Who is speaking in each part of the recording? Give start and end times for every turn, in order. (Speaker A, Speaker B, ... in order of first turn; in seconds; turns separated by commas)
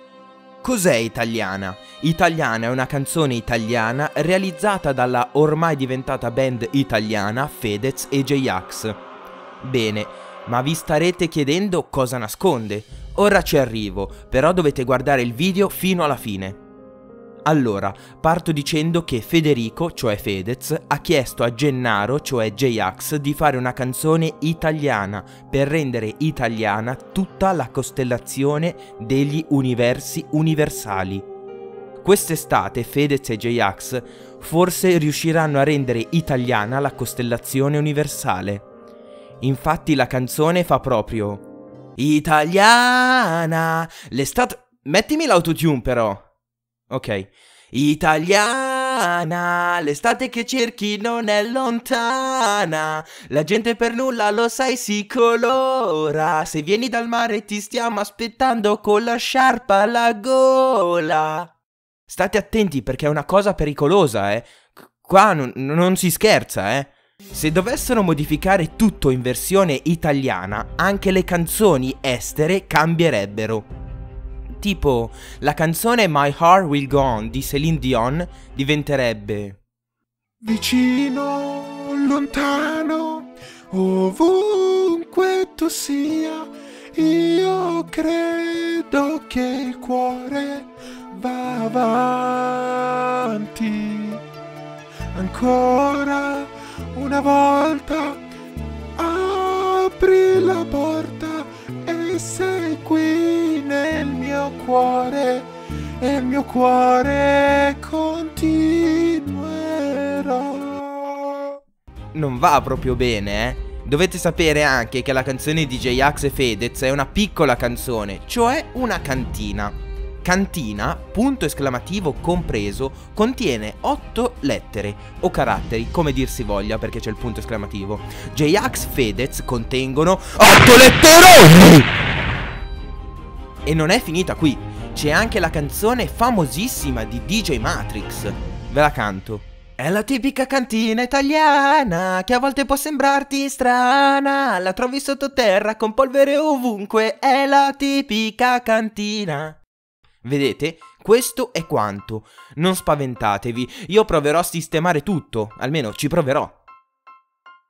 Speaker A: 0.6-9.0, Speaker A: 9.6-16.6, Speaker A: 17.4-31.3, Speaker A: 32.0-38.7, Speaker A: 39.4-41.4, Speaker A: 42.0-46.2, Speaker A: 46.9-61.5, Speaker A: 62.1-73.7, Speaker A: 74.6-79.6, Speaker B: 80.4-81.4, Speaker A: 80.5-83.2, Speaker B: 82.3-82.8, Speaker B: 83.7-84.0, Speaker A: 83.8-85.0, Speaker B: 84.8-86.4, Speaker A: 85.8-86.3, Speaker B: 87.0-90.5, Speaker A: 87.2-87.6, Speaker A: 88.2-90.6, Speaker A: 91.2-94.2, Speaker A: 95.2-96.5, Speaker B: 96.4-97.3, Speaker A: 97.2-98.2, Speaker A: 99.0-102.5, Speaker B: 102.0-105.4, Speaker A: 103.2-105.2, Speaker B: 106.0-106.8, Speaker A: 106.1-110.8, Speaker B: 107.9-108.5, Speaker B: 110.0-110.6, Speaker A: 112.1-131.9, Speaker A: 133.7-149.6, Speaker A: 150.2-156.6